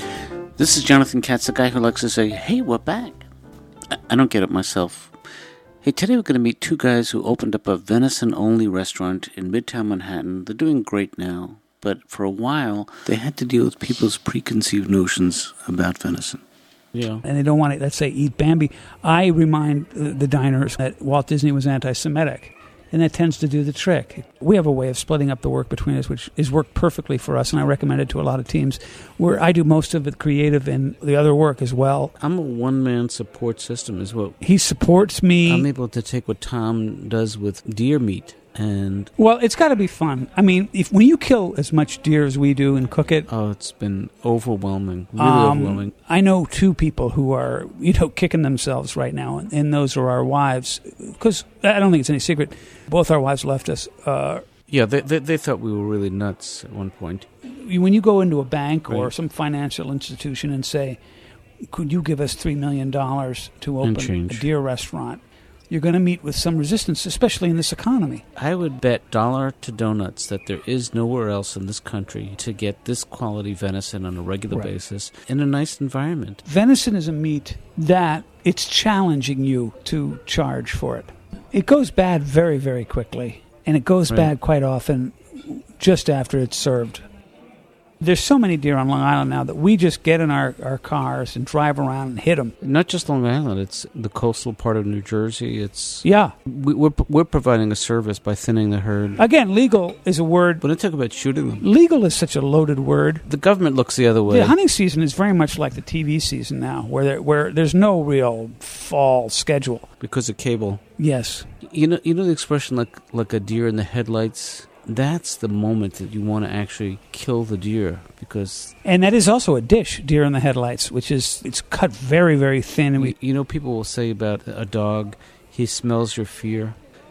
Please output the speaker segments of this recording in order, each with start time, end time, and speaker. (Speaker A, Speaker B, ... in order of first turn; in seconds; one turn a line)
Speaker A: 0.6-3.3
Speaker A: 4.0-5.2
Speaker A: 5.8-16.4
Speaker B: 16.9-17.2
Speaker C: 17.2-32.1
Speaker B: 32.2-34.4
Speaker C: 34.4-35.7
Speaker B: 35.5-39.1
Speaker C: 39.2-43.3
Speaker B: 43.3-45.9
Speaker C: 45.2-54.5
Speaker B: 54.7-57.3
Speaker C: 57.5-61.0
Speaker C: 61.7-68.2
Speaker B: 63.8-64.5
Speaker B: 68.4-76.4
Speaker C: 76.5-87.0
Speaker C: 88.0-92.5
Speaker B: 92.6-99.2
Speaker C: 96.0-96.3
Speaker C: 99.2-100.6
Speaker B: 100.6-101.6
Speaker C: 101.6-103.2
Speaker B: 103.3-104.5
Speaker C: 104.3-109.9
Speaker B: 110.0-110.8
Speaker C: 111.0-111.5
Speaker B: 111.6-118.7
Speaker C: 118.8-123.2
Speaker B: 123.0-126.8